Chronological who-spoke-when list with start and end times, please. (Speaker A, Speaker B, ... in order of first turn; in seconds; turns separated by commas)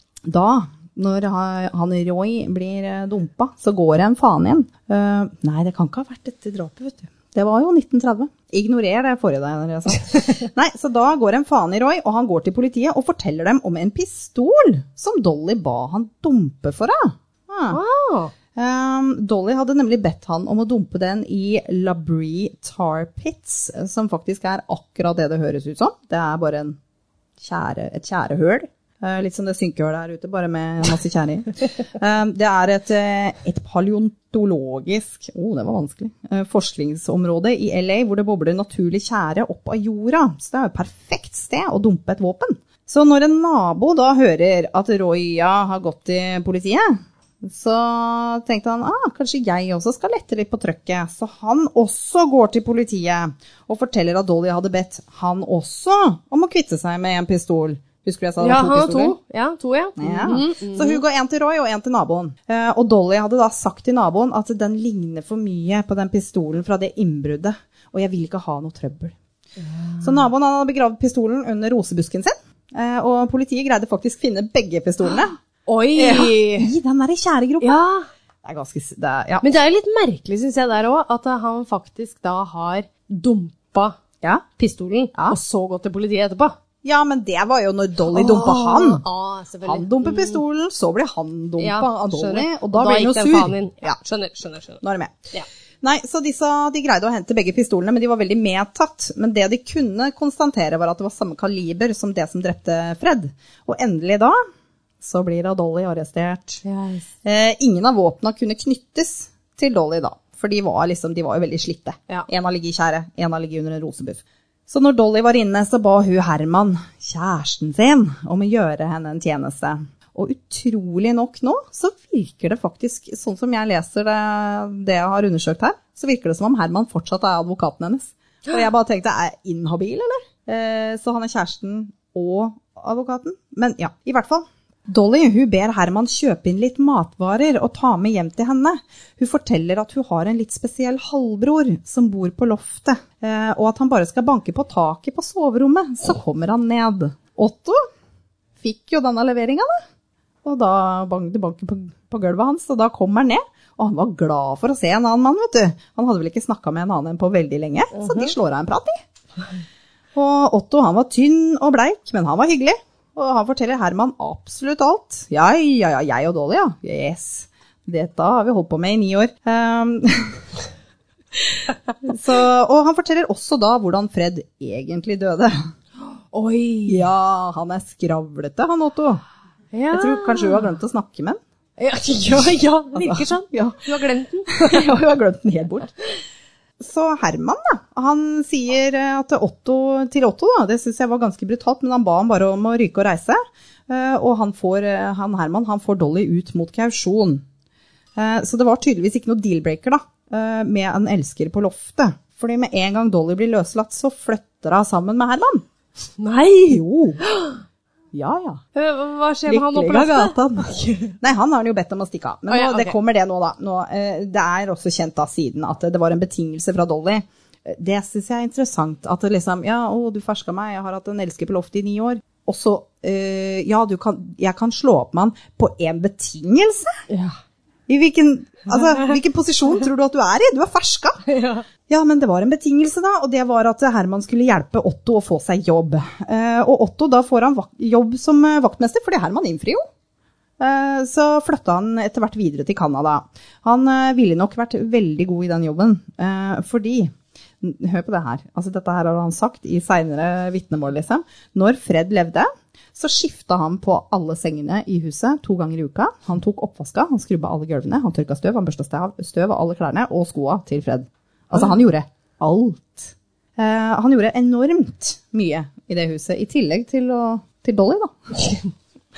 Speaker A: 0.2-17.8, Speaker B: 17.7-18.3, Speaker A: 18.6-26.8, Speaker A: 27.4-59.2, Speaker B: 58.4-61.0, Speaker A: 60.0-69.2, Speaker B: 69.7-70.2, Speaker A: 70.0-75.4, Speaker B: 75.7-76.7, Speaker A: 76.0-77.8, Speaker B: 77.6-78.1, Speaker A: 78.4-79.5, Speaker B: 79.4-84.0, Speaker B: 84.6-86.6, Speaker A: 86.8-89.0, Speaker B: 88.1-90.4, Speaker A: 89.6-94.0, Speaker B: 91.6-94.8, Speaker A: 94.8-95.2, Speaker A: 95.8-104.4, Speaker A: 105.0-106.6, Speaker B: 106.6-107.1, Speaker A: 107.2-147.8, Speaker A: 148.6-149.7, Speaker A: 150.4-159.0, Speaker B: 158.0-158.3, Speaker A: 160.1-170.4, Speaker A: 172.0-175.6, Speaker B: 176.3-177.1, Speaker A: 176.9-179.2, Speaker B: 179.7-180.6, Speaker A: 179.9-181.4, Speaker B: 181.8-184.9, Speaker A: 183.0-183.9, Speaker A: 184.5-185.9, Speaker A: 186.8-197.4, Speaker A: 198.2-205.7, Speaker B: 206.2-207.6, Speaker A: 206.7-207.2, Speaker A: 208.1-208.6, Speaker B: 208.8-211.2, Speaker A: 209.5-226.9, Speaker B: 212.5-213.0, Speaker B: 227.1-227.4, Speaker A: 227.9-231.2, Speaker B: 231.3-231.7, Speaker A: 231.9-239.8, Speaker A: 240.6-268.1